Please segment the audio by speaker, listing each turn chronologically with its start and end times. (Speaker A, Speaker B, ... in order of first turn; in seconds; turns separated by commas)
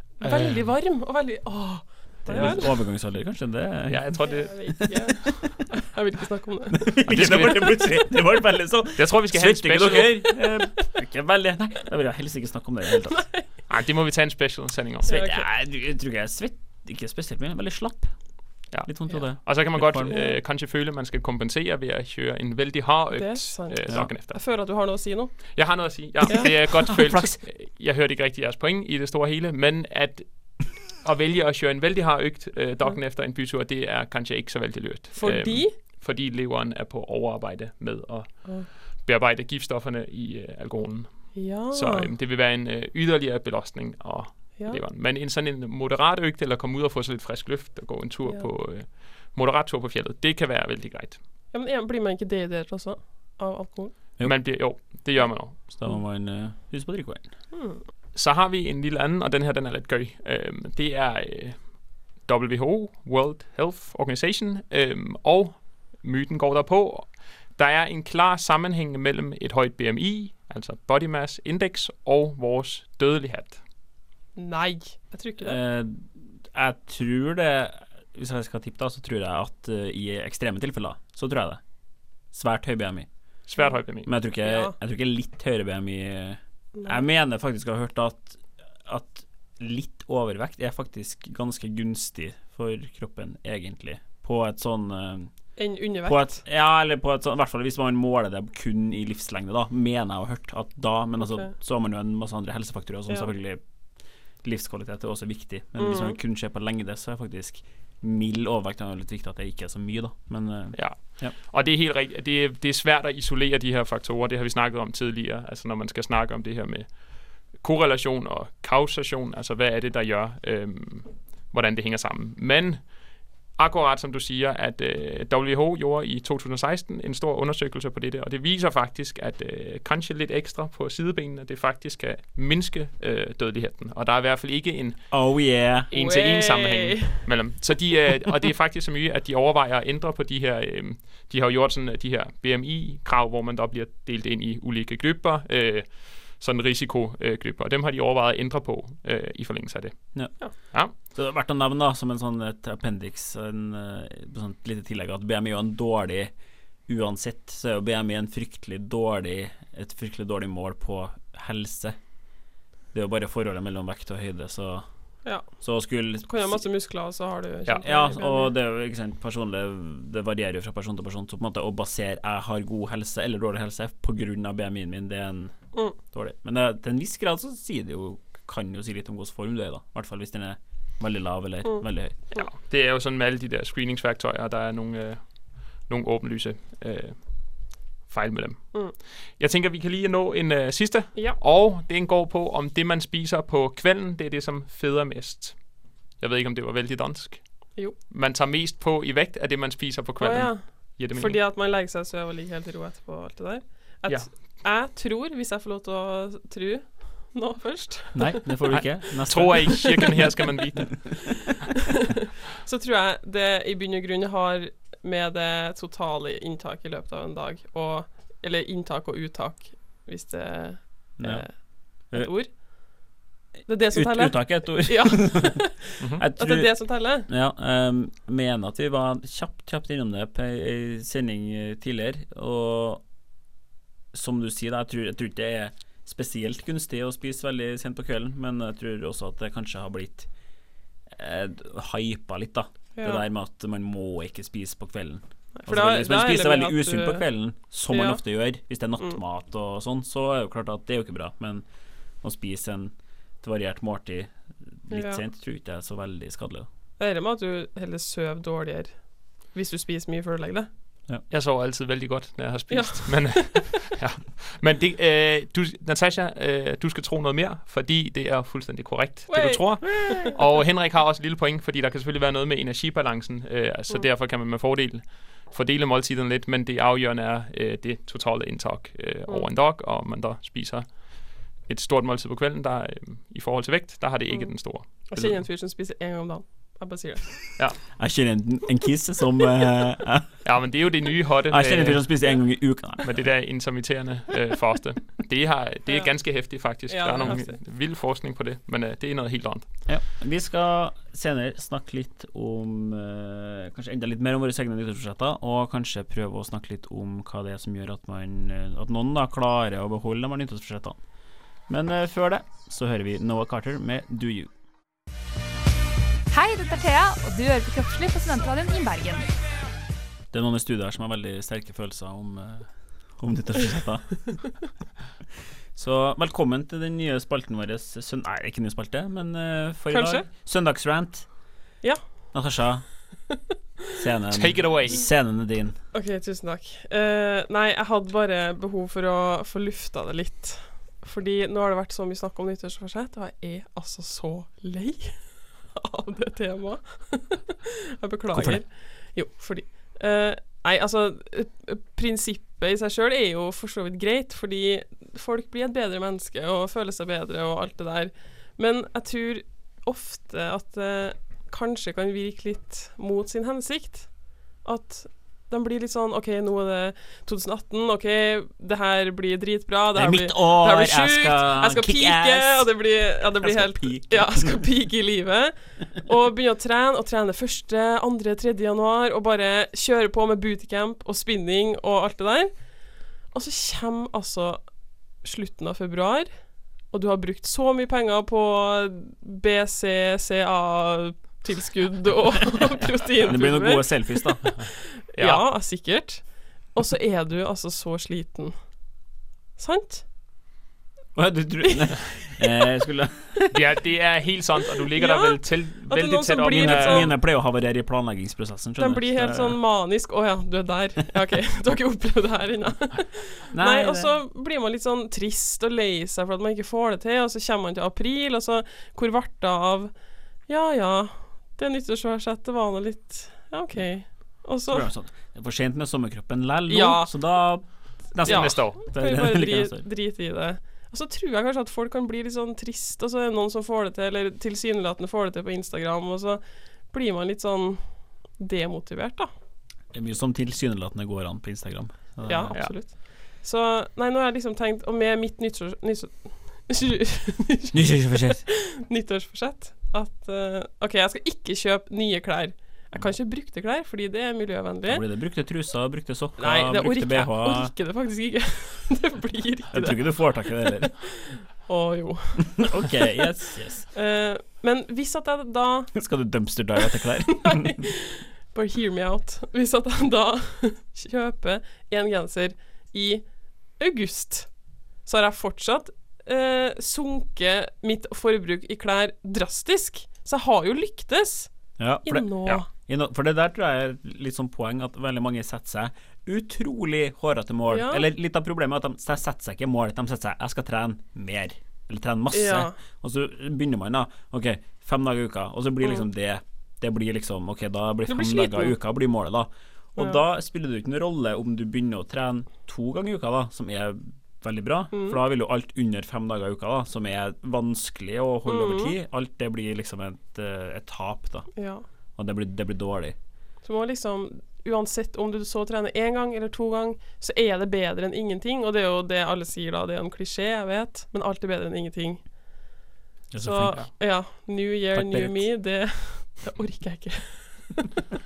Speaker A: 0.2-2.7, Speaker B: 2.3-4.3, Speaker C: 3.9-4.5, Speaker A: 4.2-6.8, Speaker B: 6.7-13.3, Speaker C: 7.0-8.0, Speaker C: 8.9-10.3, Speaker A: 13.1-13.4, Speaker C: 13.7-15.1, Speaker A: 15.1-15.4, Speaker B: 15.1-18.1, Speaker C: 18.7-24.4, Speaker B: 18.8-20.1, Speaker A: 20.1-20.4, Speaker A: 23.1-25.6, Speaker C: 25.5-51.2, Speaker B: 26.7-27.4, Speaker A: 35.1-35.7, Speaker A: 41.3-42.1, Speaker A: 51.5-53.9, Speaker C: 54.2-55.7, Speaker B: 55.7-57.3, Speaker A: 57.5-57.8, Speaker C: 58.1-61.7, Speaker C: 62.2-73.6, Speaker A: 74.4-75.6, Speaker B: 75.4-81.6, Speaker B: 82.3-83.1, Speaker C: 83.5-84.1, Speaker B: 84.0-95.3, Speaker A: 84.4-84.7, Speaker A: 86.7-87.0, Speaker A: 95.6-96.4, Speaker B: 96.0-103.6, Speaker A: 101.2-101.5, Speaker B: 104.4-111.3, Speaker A: 105.8-106.2, Speaker C: 110.7-123.0, Speaker C: 123.5-135.1, Speaker B: 135.1-135.9, Speaker C: 135.9-150.1, Speaker A: 135.9-137.2, Speaker B: 150.9-156.3, Speaker B: 156.9-162.0, Speaker B: 162.9-164.8, Speaker B: 165.6-166.6, Speaker A: 166.2-168.5, Speaker B: 167.8-175.5, Speaker B: 176.1-182.2, Speaker A: 181.6-182.5, Speaker C: 182.3-195.6, Speaker C: 196.2-201.4, Speaker A: 200.2-208.4, Speaker B: 208.1-210.2, Speaker C: 208.7-211.4, Speaker A: 212.6-222.5, Speaker B: 221.2-222.3, Speaker A: 223.7-227.3, Speaker B: 223.9-225.6, Speaker B: 226.2-233.0, Speaker B: 234.1-240.3, Speaker B: 241.1-251.6, Speaker A: 243.0-243.2, Speaker A: 245.5-247.3, Speaker A: 247.9-248.2, Speaker B: 252.2-254.3, Speaker B: 254.8-256.7, Speaker A: 254.9-255.2, Speaker A: 257.0-260.7, Speaker C: 261.3-285.4, Speaker A: 262.7-263.7, Speaker A: 269.3-270.3, Speaker B: 269.9-270.3, Speaker A: 284.3-287.2, Speaker B: 288.0-290.4, Speaker C: 290.4-292.2, Speaker B: 291.5-293.1, Speaker C: 293.0-299.7, Speaker A: 296.9-297.6, Speaker B: 299.9-311.0, Speaker B: 311.7-314.5, Speaker D: 316.4-319.2, Speaker B: 320.3-324.4, Speaker B: 325.7-331.3, Speaker A: 329.9-330.2, Speaker B: 332.3-332.8, Speaker B: 333.9-335.8, Speaker C: 334.3-335.0, Speaker A: 335.9-345.2, Speaker A: 345.7-382.6, Speaker B: 348.3-348.6, Speaker B: 369.9-374.6, Speaker A: 383.3-384.6, Speaker A: 385.2-386.3, Speaker A: 386.9-398.5, Speaker B: 393.2-394.5, Speaker C: 395.1-395.4, Speaker A: 399.6-400.0, Speaker B: 401.1-403.3, Speaker A: 401.7-402.7, Speaker C: 403.5-407.1, Speaker A: 404.9-407.1, Speaker B: 406.4-409.6, Speaker A: 408.8-419.9, Speaker B: 413.5-414.1, Speaker A: 420.5-424.9, Speaker B: 424.7-429.8, Speaker A: 426.7-427.1, Speaker C: 428.2-428.8, Speaker A: 428.2-437.8, Speaker A: 438.3-439.3, Speaker B: 439.9-442.6, Speaker A: 442.2-455.0, Speaker B: 447.7-448.4, Speaker B: 454.9-457.7, Speaker A: 456.4-462.9, Speaker B: 459.7-460.9, Speaker B: 462.6-463.9, Speaker A: 463.9-465.9, Speaker B: 465.9-467.8, Speaker A: 467.4-473.2, Speaker A: 473.8-474.5, Speaker A: 475.0-481.5, Speaker B: 481.8-511.5, Speaker A: 482.0-482.7, Speaker A: 487.7-488.0, Speaker A: 492.3-492.8, Speaker A: 498.1-498.8, Speaker A: 504.9-505.2, Speaker A: 508.4-508.9, Speaker A: 511.5-511.8, Speaker B: 512.2-513.1, Speaker A: 513.6-522.2, Speaker B: 523.3-523.9, Speaker A: 523.4-527.9, Speaker B: 524.9-525.5